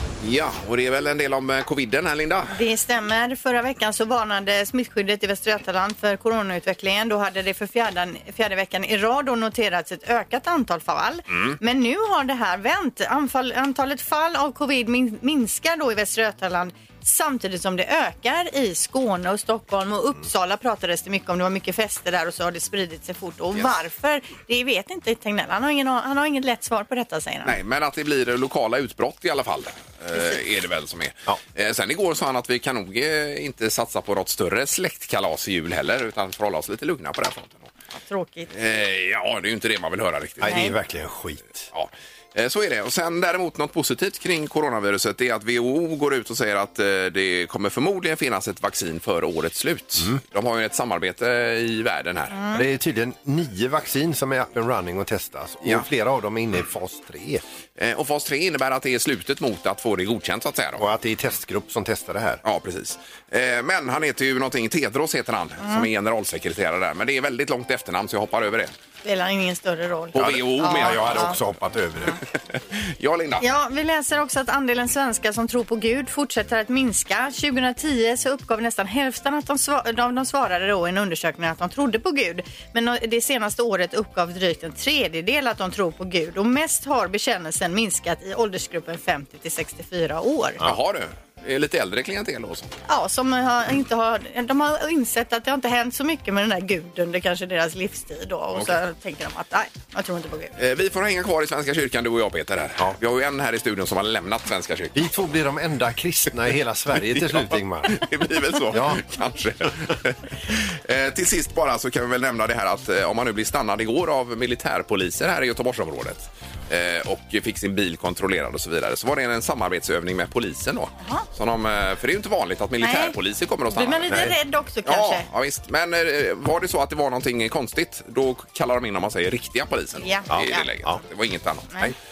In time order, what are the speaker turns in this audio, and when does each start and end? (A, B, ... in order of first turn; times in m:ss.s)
0:00.2-0:02.6 A
0:02.5-0:27.6 B
0:11.3-0:11.6 A
0:27.4-0:37.7 A
0:38.0-0:38.5 B
0:38.5-0:40.6 A
0:40.4-0:41.7 C
0:40.5-0:40.8 B
0:41.7-0:52.4 A
0:52.3-0:52.6 B
0:52.5-0:57.4 C
0:57.8-1:00.8 A
1:00.8-1:02.4 C
1:02.4-1:08.7 A
1:05.6-1:05.9 B
1:09.0-1:11.4 B
1:10.1-1:11.3 A
1:10.2-1:12.2 C
1:12.5-1:13.4 A
1:13.4-1:30.6 B
1:30.6-1:32.8 A
1:32.9-1:40.5 B
1:40.6-1:45.1 A
1:44.9-1:48.0 C
1:47.2-2:04.3 A
1:48.7-1:49.0 C
2:02.8-2:03.1 B
2:03.7-2:05.2 B
2:04.1-2:04.4 C
2:04.8-2:12.0 A
2:10.0-2:10.6 B
2:10.3-2:11.0 C